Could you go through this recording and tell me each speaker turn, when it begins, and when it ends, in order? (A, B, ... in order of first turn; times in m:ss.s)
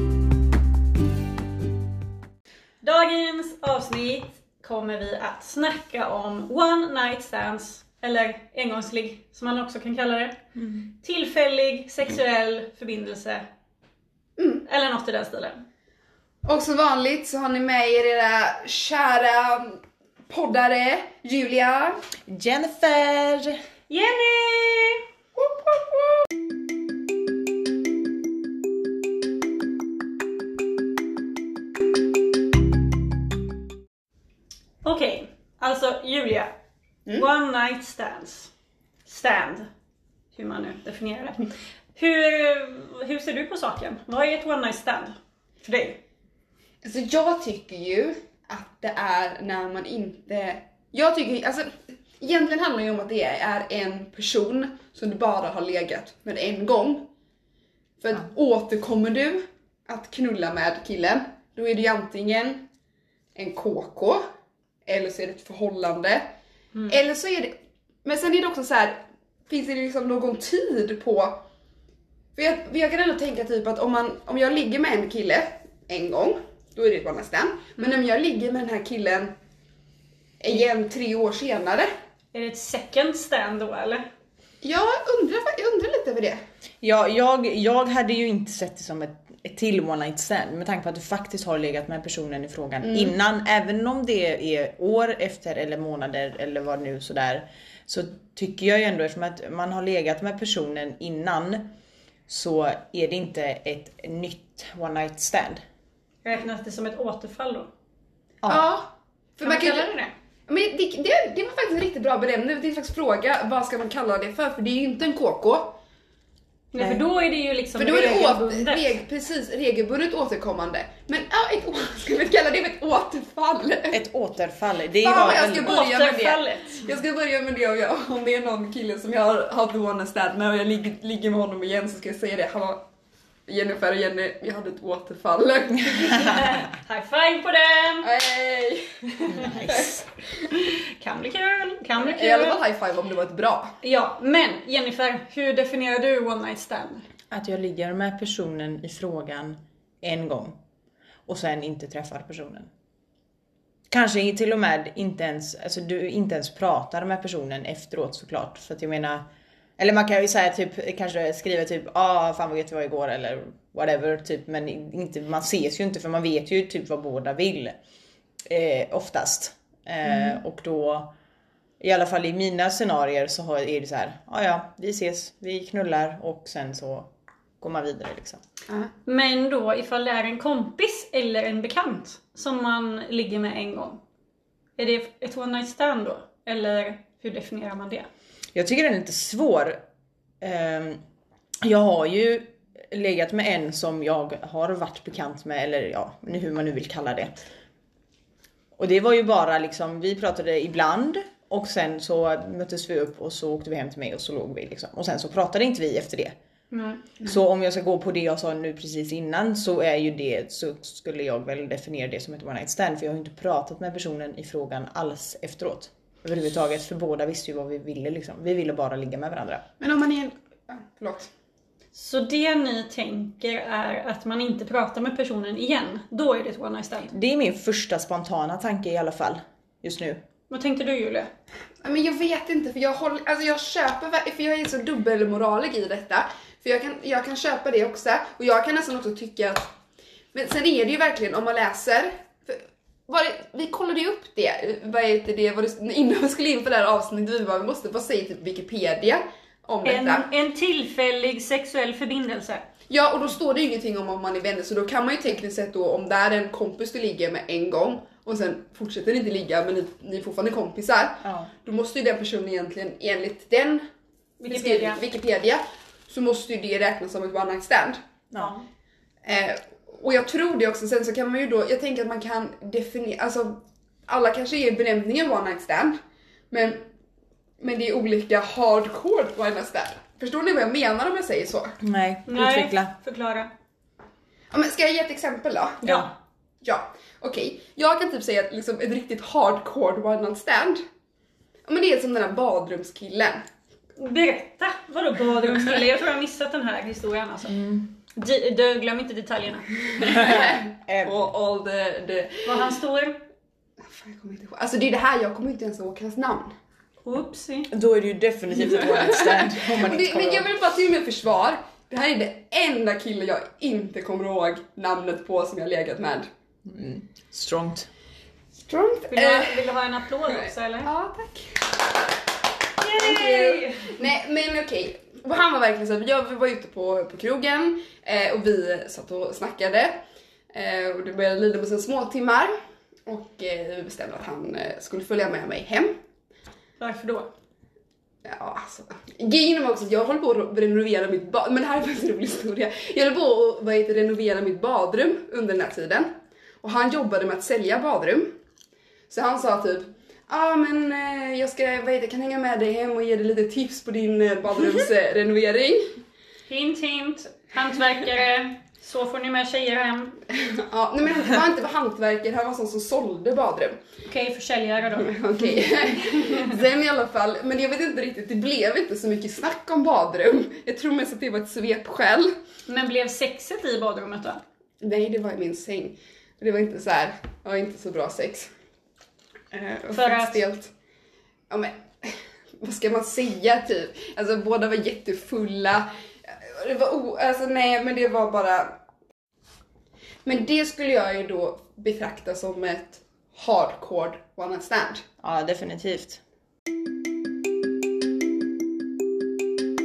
0:02.8-0:13.4 A
0:14.4-0:14.6 B
0:14.6-0:15.6 A
0:16.4-0:22.0 B
0:22.2-0:23.6 C
0:23.9-0:25.0 A
0:25.4-0:25.9 B
0:34.8-0:36.5 A
0:37.2-0:38.5 A
0:39.0-0:39.7 A
0:40.3-0:46.0 A
0:46.8-0:57.1 B
0:58.0-1:02.6 B
1:03.3-1:04.2 B
1:04.8-1:06.3 B
1:06.9-1:11.4 B
1:12.4-1:19.3 B
1:20.4-1:21.9 B
1:22.3-1:24.0 A
1:24.6-1:26.4 B
1:26.8-1:41.7 C
1:32.8-1:33.1 B
1:42.3-1:45.6 C
1:46.2-1:47.7 A
1:48.4-1:49.9 B
1:49.4-1:50.1 A
1:50.5-1:55.8 B
1:56.7-1:58.9 A
1:57.8-2:04.0 B
2:03.9-2:05.8 C
2:05.0-2:12.8 B
2:05.6-2:06.8 A
2:13.5-2:16.4 B
2:16.0-2:18.1 A
2:18.0-2:19.9 B
2:19.3-2:20.1 C
2:20.5-2:22.6 A
2:22.1-2:23.7 B
2:23.8-2:27.0 A
2:27.3-2:30.6 C
2:31.3-2:32.7 C
2:33.9-2:39.2 C
2:39.8-2:47.8 C
2:48.5-2:51.1 C
2:51.8-2:57.1 C
2:57.6-2:58.4 C
2:59.0-3:04.0 A
3:04.8-3:08.1 A
3:08.5-3:09.8 C
3:10.4-3:11.0 C
3:11.6-3:17.3 C
3:18.8-3:26.3 C
3:26.7-3:27.0 A
3:27.2-3:39.6 C
3:39.8-3:41.3 B
3:41.9-3:47.1 A
3:47.1-3:50.2 C
3:50.5-3:51.3 A
3:51.8-3:59.7 B
4:00.3-4:10.3 B
4:09.8-4:12.6 A
4:12.9-4:23.8 B
4:21.2-4:21.5 C
4:24.4-4:25.0 A
4:24.5-4:28.0 B
4:29.2-4:36.0 B
4:36.5-4:36.8 B
4:37.6-4:41.8 B
4:41.8-4:42.9 C
4:42.3-4:43.5 A
4:44.5-4:45.9 B
4:45.8-4:46.1 C
4:45.8-4:46.1 A
4:46.6-4:50.8 B
4:51.6-4:53.4 B
4:54.0-4:57.6 A
4:57.5-4:57.9 C
4:58.1-5:00.3 A
4:59.9-5:02.7 B
5:00.0-5:01.1 C
5:02.4-5:03.2 A
5:03.8-5:06.5 B
5:07.0-5:07.7 A
5:07.7-5:10.5 C
5:08.6-5:16.3 B
5:16.6-5:17.9 C
5:18.7-5:19.6 B
5:19.1-5:20.9 A
5:20.3-5:21.7 B
5:22.8-5:23.9 A
5:22.9-5:32.5 B
5:33.0-5:35.9 B
5:36.8-5:37.3 A
5:38.2-5:46.1 B
5:46.6-5:48.3 B
5:49.1-5:56.0 B
5:56.5-6:00.2 A
6:00.3-6:03.8 B
6:04.0-6:06.5 A
6:05.0-6:12.3 B
6:12.7-6:14.4 A
6:14.8-6:18.5 B
6:19.5-6:20.7 B
6:19.9-6:20.4 A
6:21.5-6:28.7 B
6:30.2-6:35.0 B
6:35.2-6:36.2 C